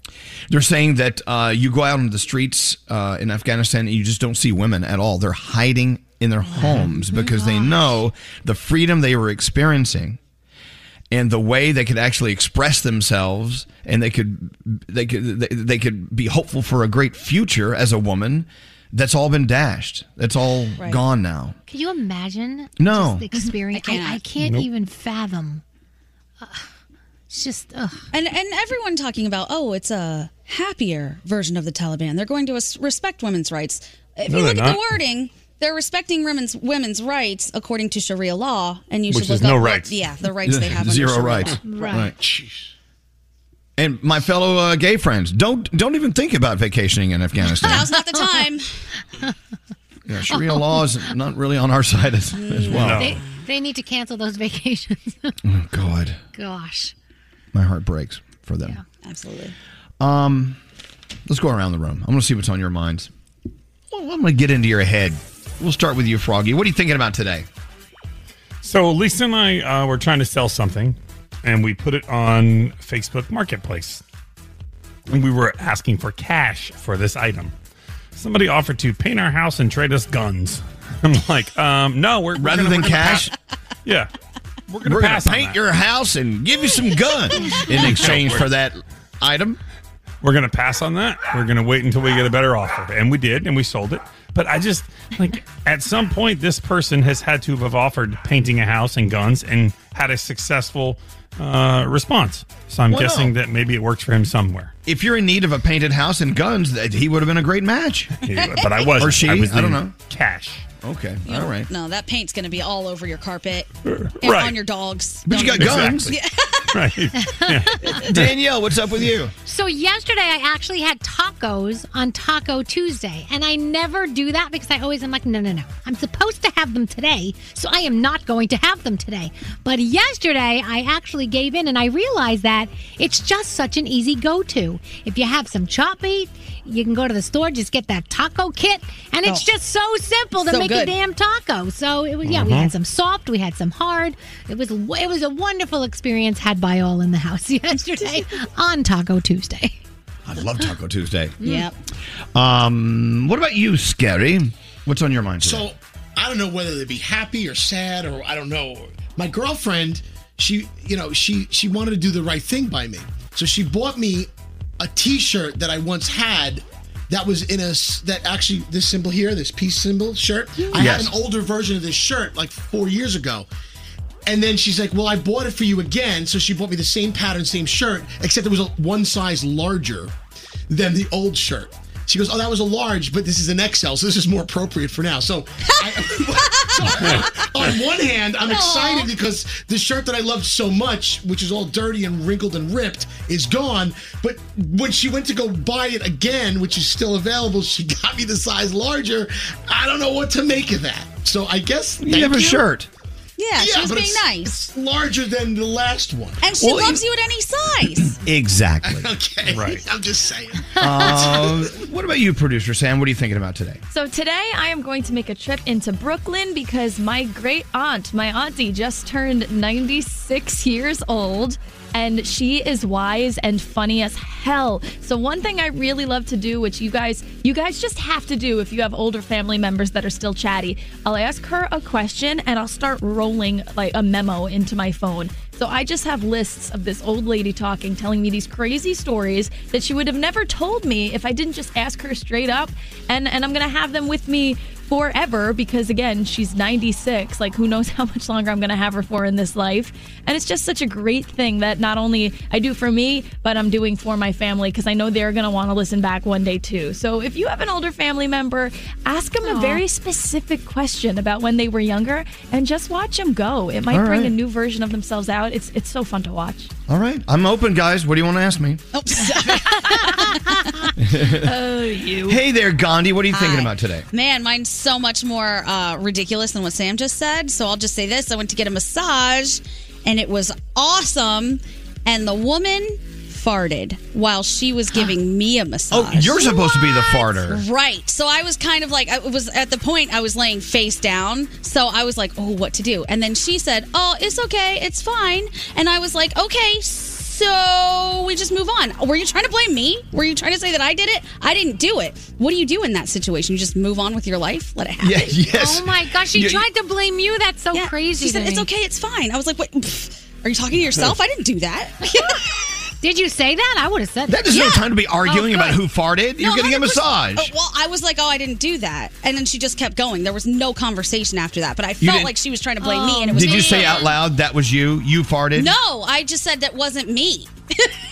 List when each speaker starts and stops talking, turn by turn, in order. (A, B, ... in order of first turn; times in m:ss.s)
0:00.5-0:10.2 A
0:06.6-0:07.9 B
0:11.1-0:21.6 A
0:21.7-0:25.6 B
0:22.8-0:23.3 A
0:23.7-0:24.2 C
0:24.4-0:24.7 D
0:26.4-0:26.6 B
0:27.3-0:28.0 B
0:28.1-0:41.9 C
0:34.3-0:34.8 D
0:39.1-0:40.0 D
0:40.4-0:42.1 A
0:41.6-0:42.1 B
0:42.2-0:42.6 E
0:43.8-0:47.9 A
0:47.6-0:48.8 C
0:47.9-0:48.4 B
0:50.1-0:53.1 A
0:50.3-0:51.0 B
0:52.3-0:53.4 C
0:52.7-0:53.2 D
0:52.8-0:55.4 B
0:55.4-0:56.2 A
0:56.3-0:56.9 B
0:57.5-0:58.8 A
0:59.0-0:59.5 C
1:00.0-1:00.6 A
1:01.3-1:03.1 A
1:03.9-1:07.5 A
1:08.6-1:14.0 D
1:15.1-1:17.5 D
1:18.1-1:23.3 D
1:22.4-1:23.3 A
1:23.8-1:24.1 D
1:24.7-1:25.6 D
1:24.8-1:29.6 A
1:27.7-1:28.5 D
1:30.2-1:44.7 D
1:42.9-1:43.3 A
1:44.8-1:48.1 A
1:48.2-1:50.6 D
1:48.3-1:48.9 C
1:49.0-1:49.9 A
1:50.8-1:51.7 A
1:51.2-1:53.7 C
1:53.9-1:54.6 D
1:54.2-1:56.7 C
1:55.3-1:56.1 A
1:55.5-1:56.2 D
1:56.7-1:58.3 D
1:57.3-1:58.0 B
1:58.0-1:59.3 A
1:59.4-2:29.8 B
2:20.4-2:20.9 C
2:22.2-2:22.7 D
2:30.2-2:31.4 A
2:31.4-2:31.7 C
2:31.4-2:31.7 B
2:32.3-2:35.7 A
2:35.4-2:44.3 E
2:44.8-2:53.5 E
2:50.7-2:51.1 A
2:54.2-3:00.1 E
3:00.7-3:22.6 E
3:06.5-3:07.3 C
3:08.5-3:09.1 C
3:22.0-3:22.9 A
3:23.4-3:24.6 C
3:23.6-3:26.4 E
3:26.4-3:28.2 C
3:26.6-3:27.0 A
3:28.0-3:29.1 A
3:28.8-3:31.6 E
3:29.5-3:29.8 D
3:30.8-3:33.8 A
3:33.9-4:26.7 F
4:19.4-4:19.8 B
4:23.9-4:24.3 A
4:26.9-4:28.8 A
4:28.9-4:30.5 C
4:31.0-4:31.5 A
4:31.4-4:32.4 F
4:32.2-4:34.1 A
4:33.3-5:05.4 C
4:45.9-4:47.6 A
5:05.0-5:06.6 A
5:05.5-5:08.7 B
5:07.7-5:12.4 C
5:13.0-5:14.8 B
5:14.3-5:17.5 A
5:14.5-5:15.8 C
5:16.4-5:24.1 C
5:22.0-5:22.3 A
5:22.8-5:24.2 B
5:23.3-5:25.7 A
5:25.5-5:27.9 C